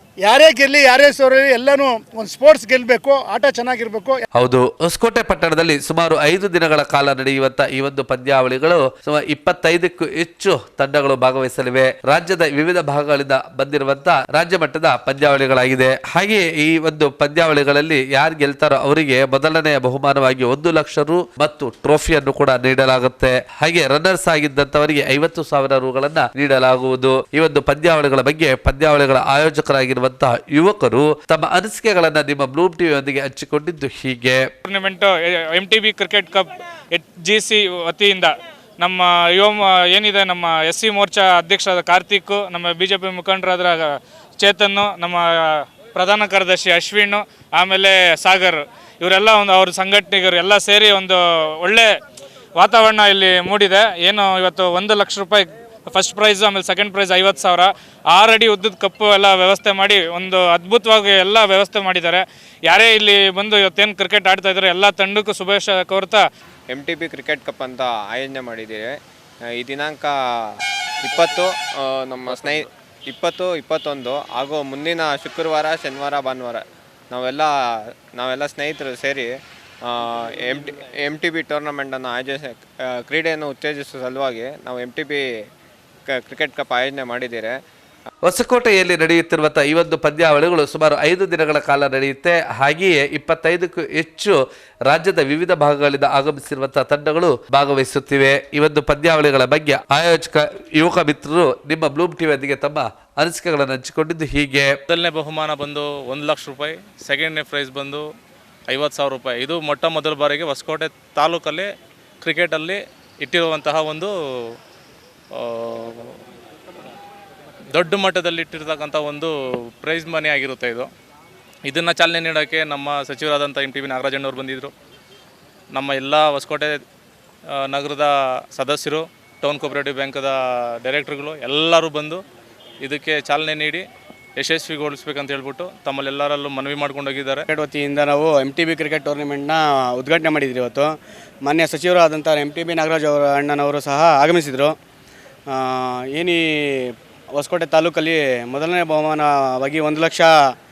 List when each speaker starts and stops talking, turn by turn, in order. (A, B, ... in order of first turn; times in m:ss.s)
0:00.2-0:04.2 A
0:04.3-0:34.5 B
0:34.6-0:51.9 C
0:52.6-1:06.2 C
1:06.7-1:25.2 D
1:26.1-1:27.6 D
1:28.2-1:44.8 B
1:44.9-1:48.0 E
1:48.7-1:51.7 E
1:52.2-1:54.1 E
1:55.4-1:56.1 E
1:57.7-2:00.9 E
2:01.7-2:04.7 E
2:05.7-2:06.8 E
2:07.6-2:12.2 E
2:12.8-2:13.8 E
2:14.4-2:17.5 E
2:17.5-2:24.8 F
2:25.5-2:30.3 F